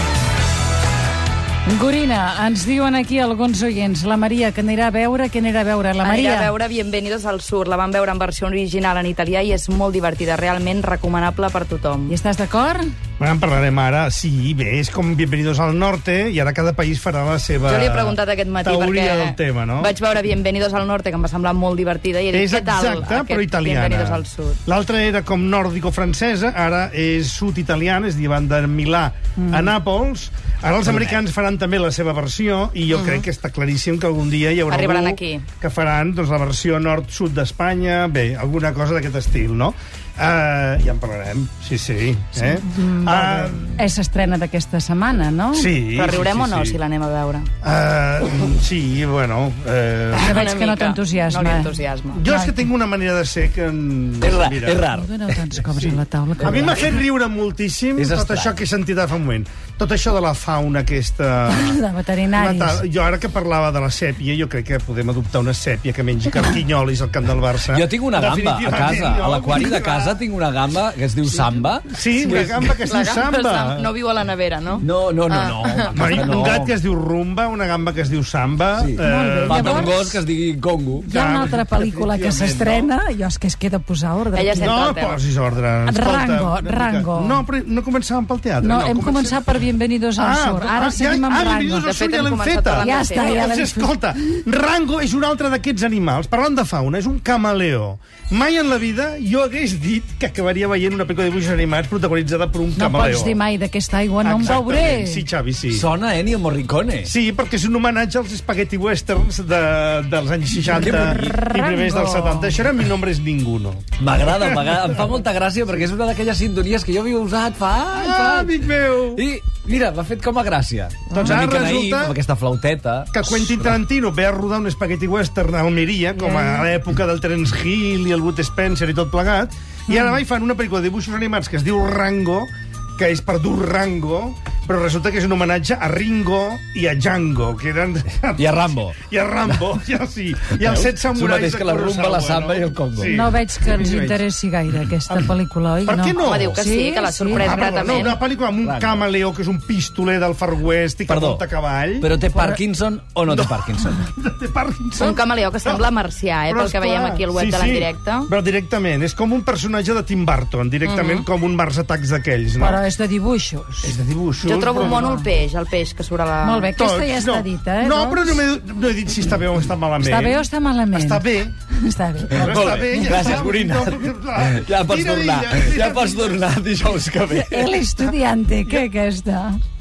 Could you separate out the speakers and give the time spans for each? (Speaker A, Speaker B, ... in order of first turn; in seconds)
Speaker A: 1.6-6.5, 12.1-12.9, 29.4-29.6, 42.3-45.7, 50.1-51.7, 52.2-52.7, 54.9-57.0, 61.5-62.8, 79.0-80.0, 81.0-84.9, 85.8-87.4, 88.6-92.0, 92.8-94.0, 102.8-105.2, 110.9-112.6, 126.2-126.7, 143.0-148.1, 162.6-163.9, 164.7-165.3, 166.4-168.4, 170.0-172.5, 177.3-179.6
Speaker B: 6.0-12.1, 17.7-24.6, 32.9-33.2, 34.7-35.5, 45.9-47.5, 50.2-52.2, 72.2-76.2, 84.3-85.2, 91.8-93.5, 146.2-148.2, 155.0-158.3, 160.8-161.2, 164.4-166.7
Speaker C: 13.2-19.9, 22.3-43.8, 45.5-46.8, 47.6-50.4, 52.1-54.9, 55.7-61.8, 62.3-70.2, 71.4-73.9, 75.9-80.2, 81.1-82.9, 84.6-89.4, 90.2-103.4, 104.2-105.9, 107.0-115.0, 117.9-119.2, 121.1-122.2, 123.1-144.2, 145.1-145.3, 145.8-146.6, 147.3-152.1, 153.3-155.9, 156.5-162.8, 163.8-165.1, 166.8-171.5, 172.3-176.4
Speaker D: 30.8-31.2, 54.2-55.4, 58.0-58.6, 67.7-72.8, 74.8-76.8, 78.8-81.1, 105.7-107.1, 110.6-111.4, 114.0-118.6, 119.1-123.5, 138.3-139.7, 140.6-143.1, 148.6-149.0, 151.1-151.4, 152.0-154.1, 172.3-177.9